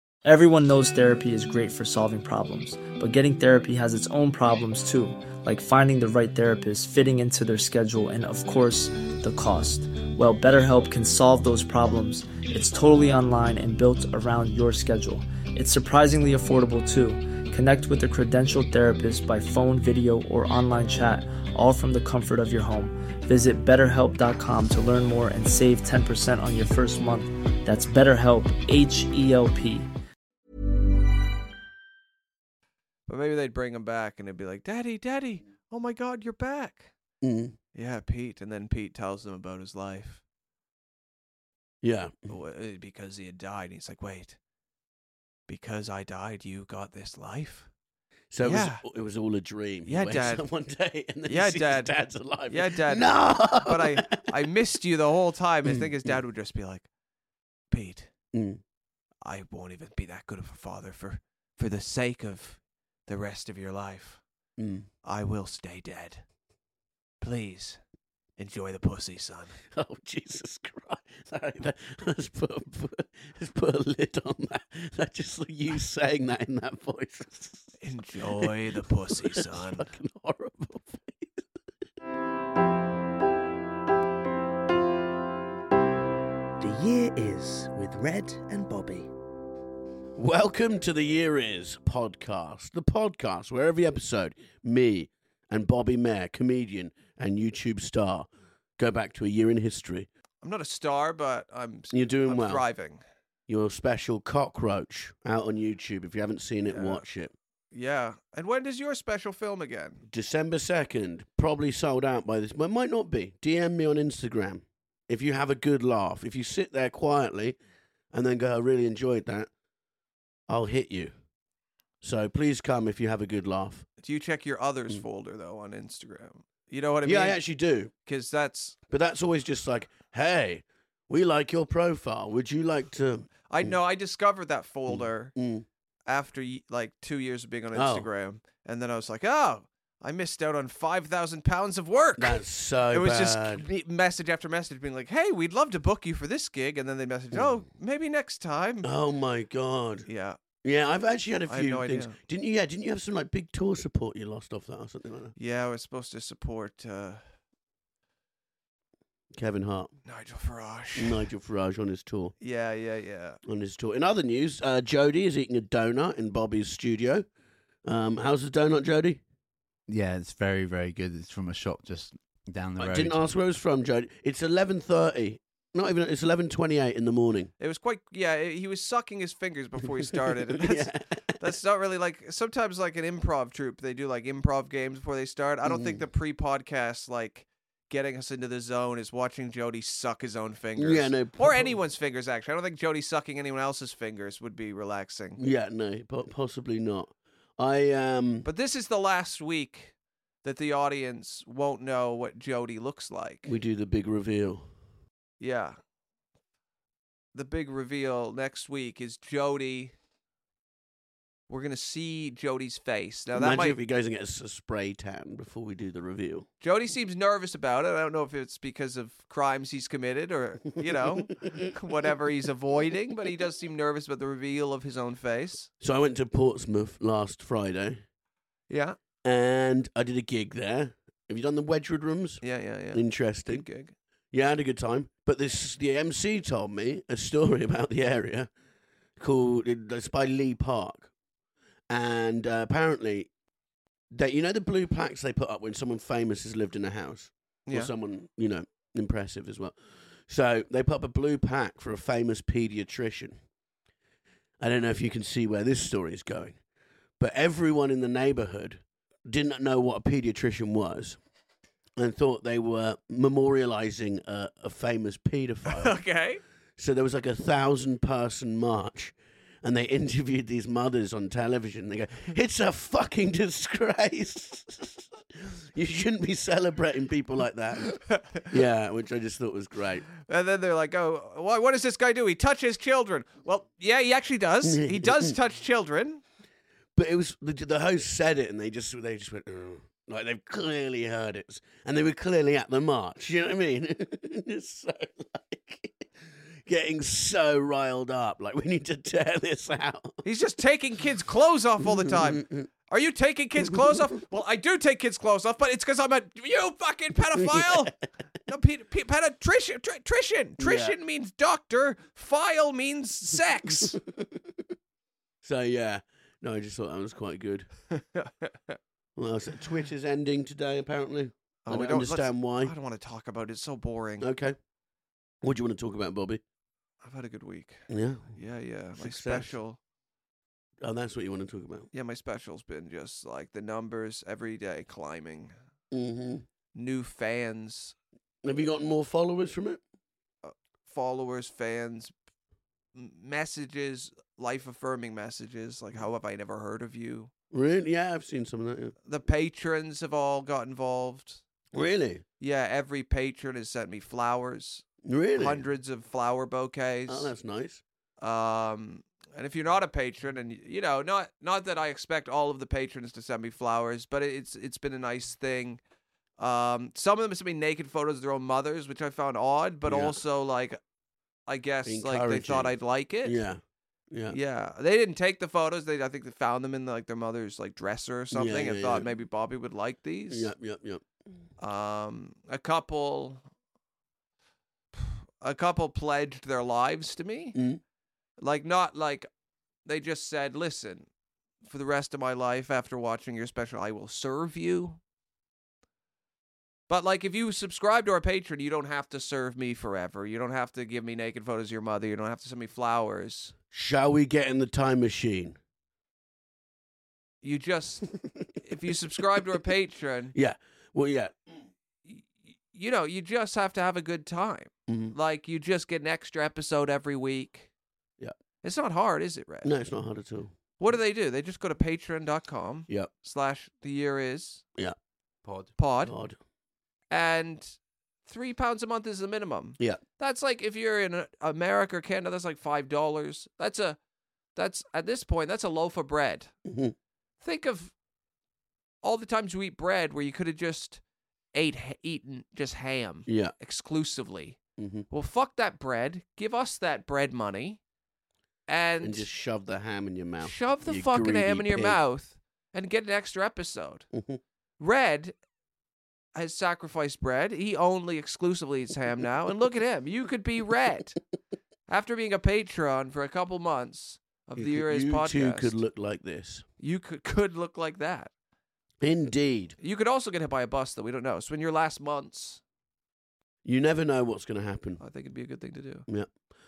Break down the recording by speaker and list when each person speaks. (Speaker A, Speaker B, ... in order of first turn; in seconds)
Speaker A: 0.2-29.9
Speaker B: 33.1-36.9, 37.8-40.2, 42.3-44.4, 45.5-47.7, 48.4-48.8, 49.9-50.5, 51.3-51.9, 52.5-56.9, 57.7-58.1, 59.2-64.2, 65.0-66.2, 67.2-67.8, 68.4-69.6, 77.8-79.9, 100.4-103.0, 106.7-107.0, 107.7-110.0, 124.0-127.4, 128.1-128.8, 133.5-135.3, 136.1-142.4, 142.9-148.9, 150.1-150.4, 151.5-152.2, 155.4-157.2, 160.1-161.2, 162.4-163.4, 177.6-195.4, 198.4-203.5, 205.4-205.8, 207.3-209.9, 211.5-213.8, 216.6-225.7, 228.7-229.0, 232.4-233.9, 265.7-266.4, 277.9-278.5, 280.2-286.2, 300.2-307.9, 308.4-314.0, 317.9-318.8, 321.7-324.3, 327.0-327.8, 328.4-329.8, 331.9-335.5, 336.8-337.9, 340.4-342.1, 342.9-347.3, 349.1-351.4, 352.4-357.3, 358.2-365.8, 366.4-370.8, 371.5-373.4, 374.3-380.5, 381.6-383.4, 384.9-387.6, 388.4-389.3, 389.9-391.1, 391.6-395.0, 396.9-403.6, 407.4-410.4, 412.1-417.7, 418.6-419.7, 420.8-424.6, 425.8-426.1, 427.1-427.8, 428.2-434.0, 434.6-436.5, 437.4-437.9, 439.0-441.0, 441.5-444.6, 445.1-447.8, 448.7-449.3, 450.4-454.1, 454.8-455.4, 456.4-461.2, 461.9-465.8, 466.8-468.3, 469.8-472.6, 475.0-476.1
Speaker C: 37.2-37.6, 41.8-42.2, 48.3-54.3, 55.6-56.2, 58.3-58.6, 64.6-64.9, 69.7-77.8, 79.1-81.4, 90.2-100.1, 101.9-102.7, 103.5-107.3, 110.1-117.6, 118.1-119.5, 120.5-121.1, 122.0-123.9, 127.0-127.9, 128.9-133.8, 134.9-135.7, 137.7-138.1, 142.2-143.7, 148.8-150.1, 150.6-155.3, 159.3-159.9, 161.0-162.3, 163.5-167.2, 167.8-169.2, 172.8-177.5, 180.0-181.5, 185.6-186.1, 190.8-191.8, 195.4-198.5, 203.4-204.7, 213.3-216.5, 220.9-222.1, 225.8-228.0, 229.2-233.7, 234.3-238.5, 239.2-241.1, 241.9-243.3, 244.1-249.8, 250.3-253.4, 254.6-256.6, 257.2-261.2, 262.0-266.0, 266.8-280.1, 284.6-285.3, 286.9-296.1, 296.7-300.2, 301.8-302.7, 307.4-307.9, 310.6-311.0, 313.7-314.6, 315.4-317.7, 319.2-322.7, 324.2-324.6, 325.4-326.4, 327.9-328.4, 329.0-329.6, 330.8-331.9, 335.9-336.4, 338.4-339.8, 347.5-348.9, 351.7-352.2, 355.0-355.6, 357.1-357.8, 369.9-370.2, 371.9-372.7, 373.2-374.4, 378.3-379.1, 380.3-381.1, 387.6-387.8, 403.7-405.6, 410.3-411.4, 414.9-415.2, 419.6-420.6, 426.0-426.4, 436.7-436.9, 443.3-443.5, 444.8-445.1, 449.0-452.0, 464.6-466.7, 469.0-469.8, 473.6-475.0
Speaker D: 86.6-89.1
Speaker E: 169.9-173.2, 425.4-425.7